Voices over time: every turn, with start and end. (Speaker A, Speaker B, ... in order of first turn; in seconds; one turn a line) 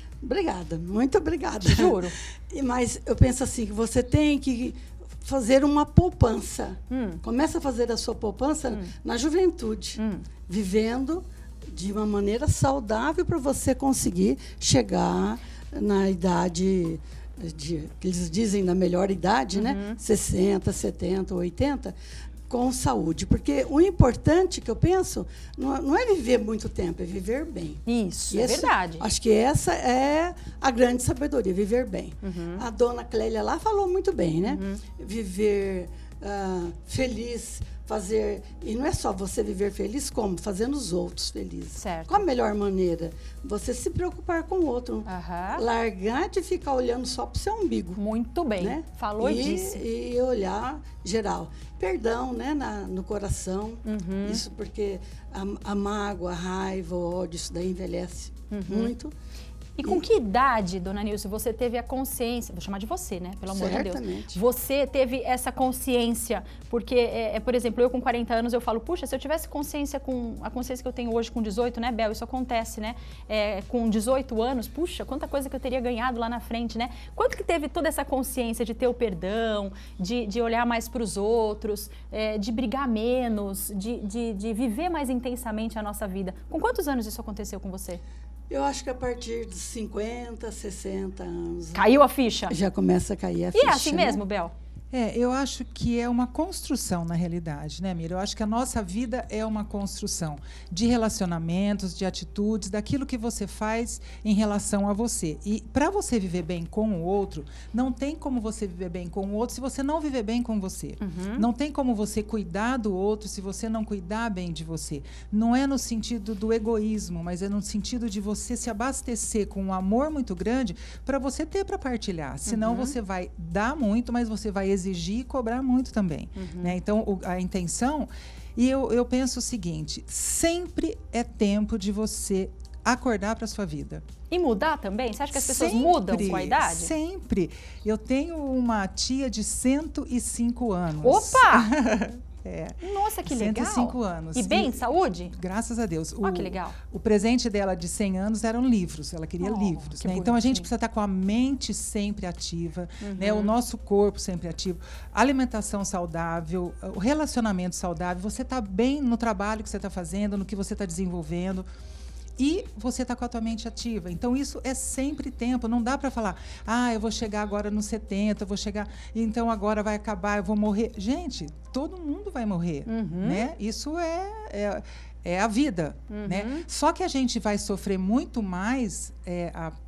Speaker A: 0.2-21.9
Speaker B: 1.6-2.1
Speaker B: 6.9-7.2
Speaker B: 10.0-10.2
Speaker B: 19.5-20.0
Speaker A: 22.5-48.0
Speaker B: 27.9-29.1
Speaker B: 32.2-32.6
Speaker B: 34.4-34.8
Speaker B: 41.8-42.2
Speaker B: 45.0-45.6
Speaker B: 48.0-49.8
Speaker A: 48.6-59.1
Speaker B: 53.8-54.4
Speaker B: 58.5-58.9
Speaker B: 59.8-88.0
Speaker A: 63.5-64.4
Speaker A: 88.5-91.8
Speaker B: 91.7-92.5
Speaker A: 92.5-94.2
Speaker B: 93.5-94.5
Speaker C: 94.9-134.0
Speaker B: 111.0-111.5
Speaker B: 122.5-123.0
Speaker B: 126.3-126.8
Speaker B: 134.3-136.9
Speaker C: 135.3-161.7
Speaker B: 141.0-141.7
Speaker B: 142.8-145.3
Speaker B: 146.2-146.8
Speaker B: 149.4-150.7
Speaker B: 153.0-153.5
Speaker C: 162.4-179.7
Speaker B: 172.9-173.5
Speaker B: 176.1-176.7